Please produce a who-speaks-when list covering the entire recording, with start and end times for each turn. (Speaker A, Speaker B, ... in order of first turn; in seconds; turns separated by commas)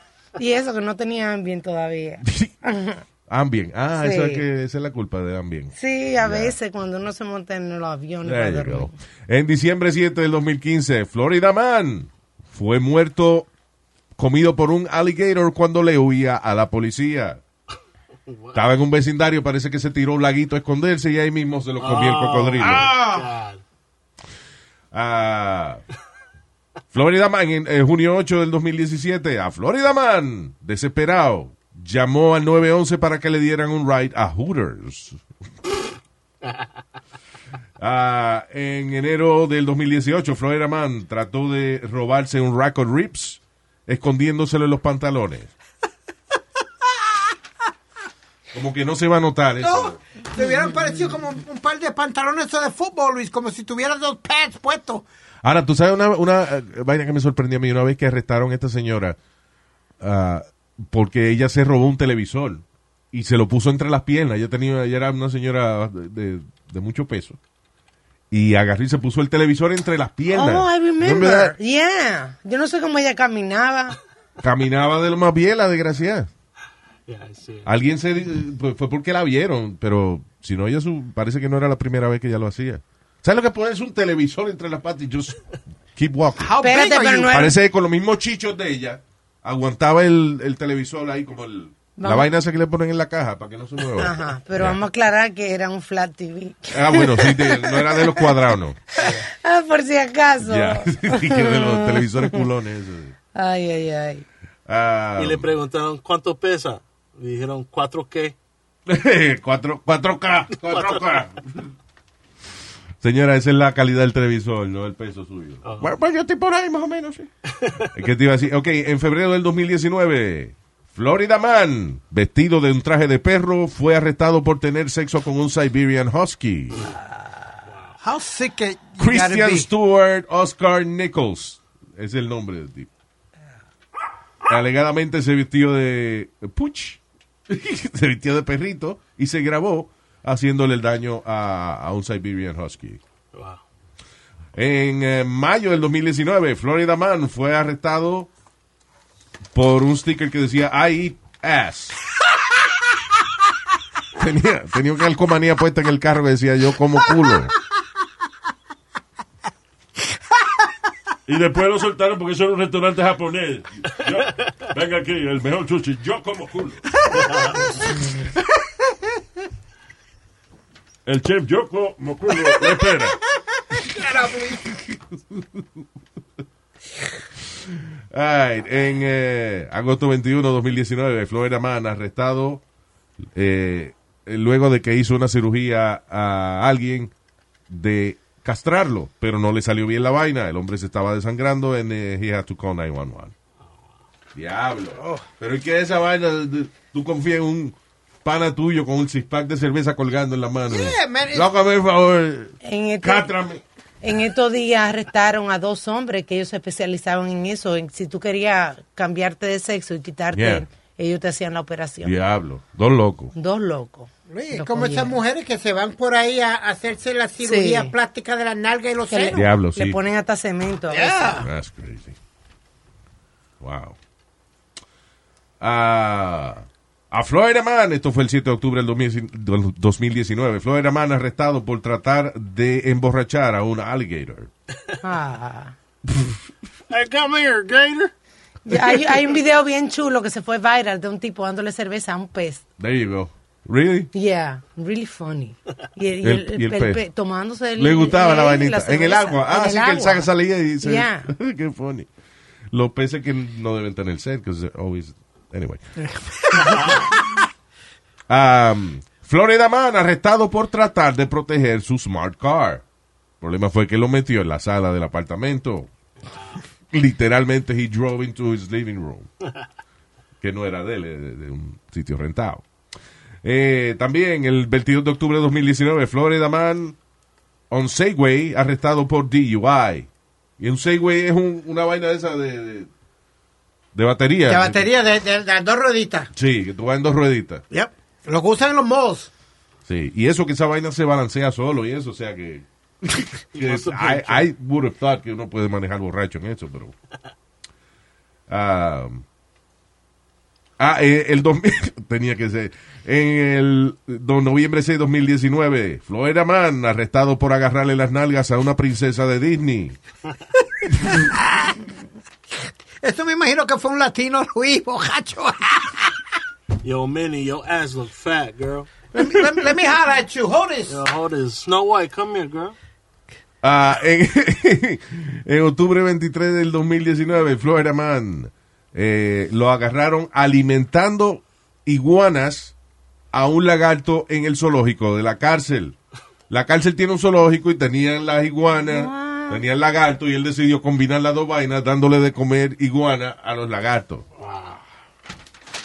Speaker A: 0.4-3.0, Speaker B: 2.2-2.5, Speaker B: 3.3-6.5, Speaker A: 4.0-4.4, Speaker A: 5.8-8.9, Speaker B: 8.2-13.5, Speaker B: 14.2-17.4, Speaker C: 18.3-18.6, Speaker B: 18.5-23.3, Speaker C: 21.8-23.6, Speaker B: 24.9-25.8, Speaker B: 26.9-35.2, Speaker B: 37.8-45.5, Speaker B: 48.5-50.0, Speaker D: 49.6-55.0, Speaker B: 55.4-59.2, Speaker B: 60.0-67.4, Speaker B: 68.3-71.5, Speaker A: 70.3-74.0, Speaker B: 74.4-76.3, Speaker C: 77.1-77.7, Speaker B: 77.6-85.4, Speaker B: 85.9-86.5, Speaker D: 86.4-87.3, Speaker A: 86.6-87.5, Speaker B: 87.1-94.8, Speaker A: 92.0-92.3, Speaker A: 94.0-98.3, Speaker B: 96.7-98.8, Speaker A: 99.0-102.4, Speaker B: 100.4-103.1, Speaker A: 103.3-104.2, Speaker B: 104.7-105.5, Speaker C: 105.2-108.3, Speaker B: 108.9-111.4, Speaker B: 113.0-117.3, Speaker C: 115.6-115.9, Speaker B: 117.8-126.9, Speaker D: 128.0-129.7, Speaker B: 129.0-132.9, Speaker B: 134.4-143.0, Speaker C: 143.3-143.6, Speaker B: 144.5-148.3, Speaker B: 149.5-152.0, Speaker B: 154.2-157.5, Speaker E: 161.2-167.4, Speaker C: 167.3-167.6, Speaker E: 171.0-173.2, Speaker D: 173.8-174.7, Speaker B: 174.6-175.7, Speaker B: 177.7-182.6, Speaker B: 183.3-187.1, Speaker B: 187.7-193.3, Speaker B: 194.3-203.6, Speaker D: 200.7-201.5, Speaker A: 202.6-203.3, Speaker A: 204.0-212.1, Speaker B: 210.3-210.7, Speaker B: 212.0-213.3, Speaker A: 213.3-215.2, Speaker D: 214.3-219.4, Speaker A: 217.4-217.9, Speaker A: 219.1-221.4, Speaker B: 219.3-220.0, Speaker D: 220.9-221.5, Speaker B: 221.4-222.2, Speaker B: 223.6-224.0, Speaker B: 225.6-234.5, Speaker A: 235.0-235.7, Speaker C: 236.9-238.1, Speaker A: 238.7-242.6, Speaker C: 238.9-239.1, Speaker B: 242.8-244.1, Speaker A: 244.1-250.3, Speaker B: 246.2-247.0, Speaker B: 247.8-252.1, Speaker A: 250.8-251.3, Speaker B: 252.7-255.8, Speaker D: 256.0-257.3, Speaker B: 258.3-262.8, Speaker B: 263.4-265.9, Speaker B: 266.9-269.3, Speaker B: 270.4-272.6, Speaker B: 273.4-276.9, Speaker B: 277.7-280.1, Speaker B: 280.6-282.9, Speaker B: 283.9-284.9, Speaker D: 284.5-286.3, Speaker B: 286.3-287.6, Speaker D: 287.7-289.3, Speaker B: 289.9-296.9, Speaker C: 293.5-294.5, Speaker B: 298.5-299.2, Speaker B: 300.8-310.0, Speaker D: 310.8-311.8, Speaker D: 313.0-316.1, Speaker C: 316.8-318.9, Speaker D: 319.1-321.0, Speaker C: 320.9-322.7, Speaker B: 323.6-332.7, Speaker B: 333.3-335.9, Speaker B: 336.5-344.2, Speaker A: 338.8-339.6, Speaker C: 344.4-344.8